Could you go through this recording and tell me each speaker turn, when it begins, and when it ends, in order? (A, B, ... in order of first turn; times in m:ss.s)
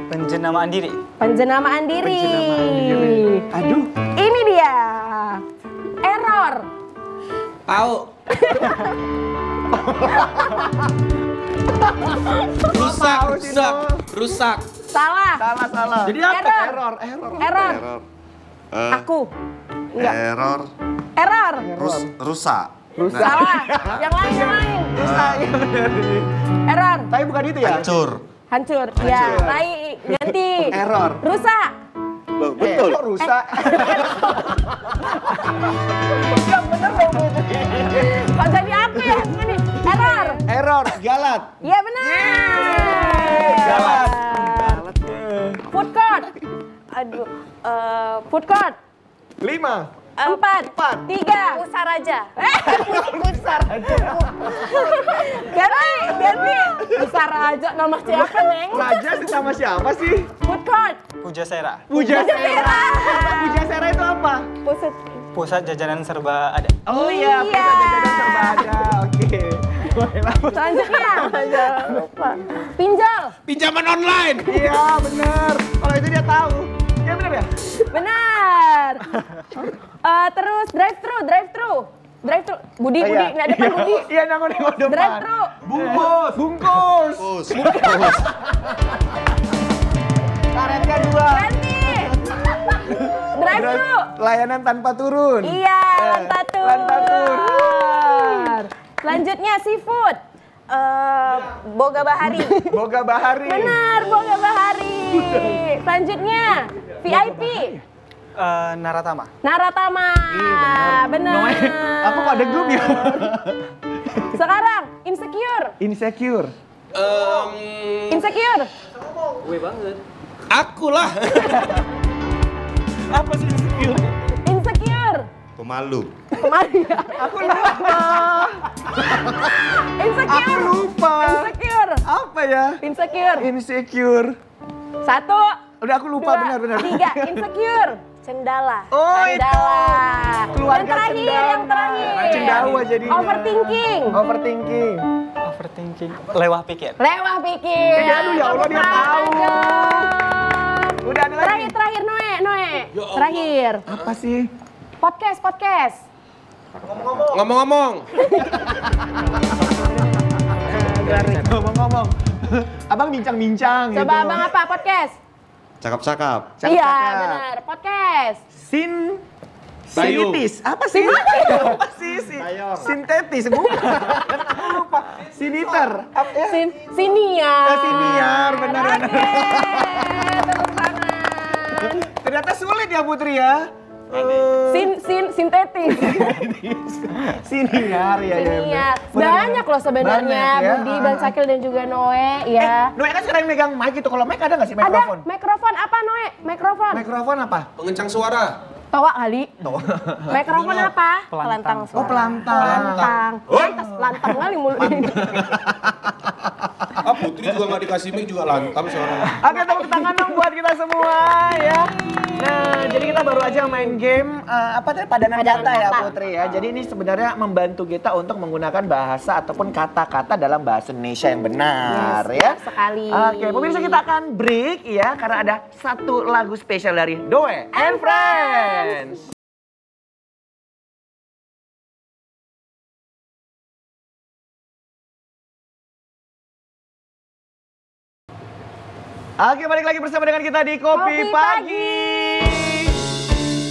0:00.1-0:01.0 A
0:01.2-0:03.4 B
0:02.0-0:03.9 C
0:04.1-0:05.4 B
0:06.0-0:06.7 B
0:07.7-0:08.1 D
0:08.3-0:09.0 B
0:09.7-0:10.8 C
0:11.8-0:14.0 C
0:12.6-0:14.7 D
0:14.9-0:15.5 B
0:15.4-0:17.8 C
0:16.0-0:16.3 D
0:16.2-0:16.8 B
0:17.4-0:17.8 B
0:17.6-0:18.0 E
0:18.7-0:19.1 E
0:18.9-0:19.3 B
0:19.9-0:20.7 E
0:21.2-0:21.7 B
0:21.6-0:22.1 C
0:21.8-0:23.9 E
0:23.0-0:26.4 C
0:23.1-0:25.0 B
0:25.0-0:25.5 E
0:26.6-0:27.1 B
0:27.1-0:28.0 C
0:27.6-0:28.2 E
0:28.5-0:31.7 B
0:29.0-0:31.2 C
0:32.4-0:33.0 E
0:32.6-0:38.4 C
0:33.2-0:34.6 B
0:37.8-0:40.4 B
0:38.9-0:39.5 C
0:39.9-0:40.4 F
0:40.4-0:45.6 C
0:41.6-0:44.8 B
0:43.7-0:44.0 D
0:45.7-0:46.4 B
0:46.9-0:48.3 F
0:48.3-0:48.8 B
0:49.4-0:49.9 C
0:50.2-0:51.6 B
0:50.7-0:51.1 C
0:51.3-0:52.3 F
0:52.4-0:53.4 B
0:52.6-0:54.9 C
0:54.0-0:59.5 B
0:55.6-0:56.2 F
0:56.1-0:57.2 C
0:58.0-1:00.3 C
1:00.4-1:01.0 B
1:01.2-1:01.9 A
1:01.9-1:04.5 C
1:01.9-1:03.7 B
1:04.6-1:05.1 F
1:05.3-1:06.8 A
1:06.9-1:12.0 C
1:06.9-1:08.8 B
1:10.5-1:13.4 B
1:11.2-1:12.5 F
1:13.4-1:14.7 D
1:14.4-1:17.5 C
1:17.9-1:19.2 B
1:19.2-1:19.8 C
1:20.0-1:24.1 B
1:23.0-1:29.2 C
1:24.9-1:25.6 B
1:25.6-1:26.4 D
1:27.2-1:28.2 E
1:27.5-1:28.3 D
1:30.5-1:38.5 C
1:31.2-1:34.1 B
1:35.4-1:40.2 B
1:40.7-1:42.8 B
1:42.2-1:43.8 C
1:43.4-1:47.7 B
1:45.2-1:45.4 C
1:47.0-1:47.8 C
1:48.4-1:49.3 A
1:49.4-1:53.3 B
1:50.3-1:54.2 C
1:54.2-1:55.8 B
1:55.8-1:56.5 C
1:56.9-1:58.3 D
1:58.1-1:58.7 B
1:59.4-1:59.9 D
2:00.5-2:01.9 D
2:03.1-2:04.3 C
2:04.4-2:05.3 B
2:05.6-2:06.1 E
2:06.4-2:08.3 B
2:07.1-2:09.6 C
2:09.3-2:12.0 B
2:10.2-2:14.4 C
2:12.8-2:13.5 B
2:15.0-2:15.6 B
2:15.8-2:17.5 C
2:16.2-2:24.2 B
2:18.9-2:25.1 C
2:25.4-2:27.0 A
2:27.0-2:33.8 B
2:27.9-2:30.1 C
2:31.0-2:31.7 C
2:32.9-2:34.1 D
2:33.9-2:34.5 C
2:35.0-2:36.0 B
2:36.8-2:37.4 C
2:37.2-2:38.1 D
2:38.2-2:38.5 B
2:38.3-2:44.7 C
2:40.7-2:41.3 B
2:40.7-2:41.4 D
2:43.9-2:45.2 B
2:45.8-2:46.6 E
2:46.6-2:47.4 C
2:46.6-2:48.4 B
2:48.5-2:49.2 C
2:49.9-2:56.7 C
2:49.9-2:50.4 D
2:50.9-2:51.8 B
2:52.4-2:52.9 E
2:53.6-2:54.6 B
2:55.7-3:02.1 B
2:57.6-3:00.5 C
3:01.7-3:05.0 C
3:04.7-3:06.4 B
3:05.9-3:11.3 C
3:08.3-3:12.9 B
3:12.6-3:15.2 C
3:14.8-3:17.0 B
3:16.9-3:17.7 C
3:17.8-3:18.6 D
3:18.9-3:19.5 B
3:19.6-3:20.4 C
3:20.3-3:25.4 B
3:20.4-3:20.9 D
3:21.3-3:22.5 A
3:21.9-3:27.8 C
3:22.5-3:23.7 D
3:27.0-3:29.4 D
3:29.4-3:49.2 C
3:29.4-3:30.4 B
3:31.0-3:33.9 B
3:35.3-3:36.1 B
3:41.9-3:44.0 B
3:47.7-3:49.1 B
3:59.4-4:03.0 C
4:00.9-4:02.3 B